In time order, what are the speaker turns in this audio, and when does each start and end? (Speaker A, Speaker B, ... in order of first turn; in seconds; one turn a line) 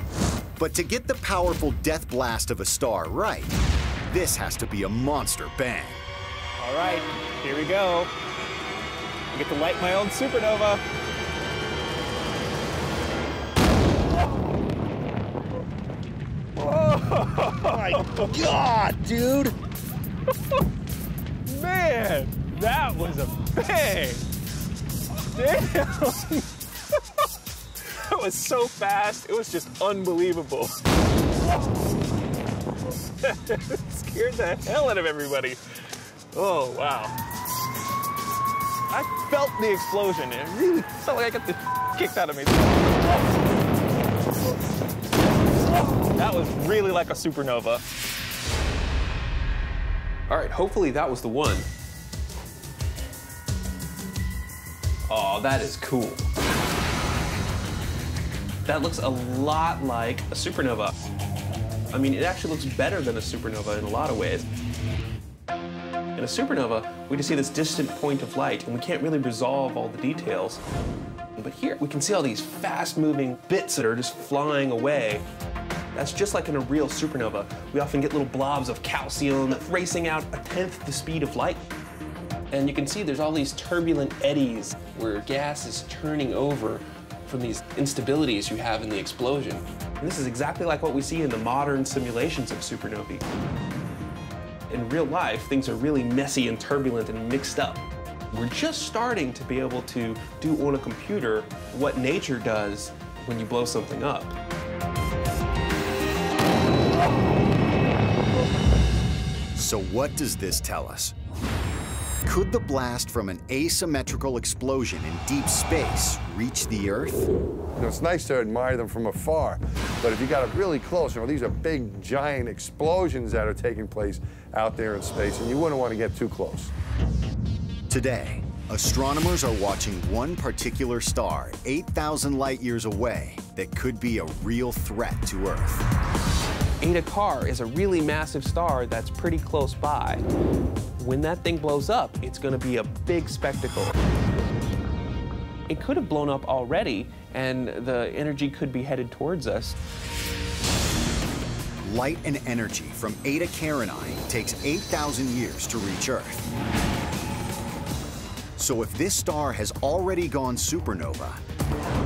Speaker A: 0.6-3.6
Speaker A: 4.1-6.0
Speaker B: 6.6-8.1
Speaker B: 9.3-10.8
Speaker B: 16.6-19.5
Speaker B: 21.4-24.2
Speaker B: 25.3-26.5
Speaker B: 27.8-30.8
Speaker B: 33.2-35.6
Speaker B: 36.3-37.1
Speaker B: 38.9-43.0
Speaker B: 46.1-47.8
Speaker C: 50.3-51.7
Speaker C: 55.1-56.3
Speaker C: 58.6-60.9
Speaker C: 61.9-64.5
Speaker C: 66.2-70.6
Speaker C: 71.4-75.2
Speaker C: 75.9-81.7
Speaker C: 82.5-93.2
Speaker C: 94.7-104.3
Speaker A: 109.5-111.1
Speaker A: 112.2-117.3
Speaker D: 117.8-126.7
Speaker A: 127.9-135.8
Speaker C: 136.8-140.2
Speaker C: 141.0-144.0
Speaker C: 145.7-149.8
Speaker A: 151.8-156.5
Speaker A: 158.6-161.4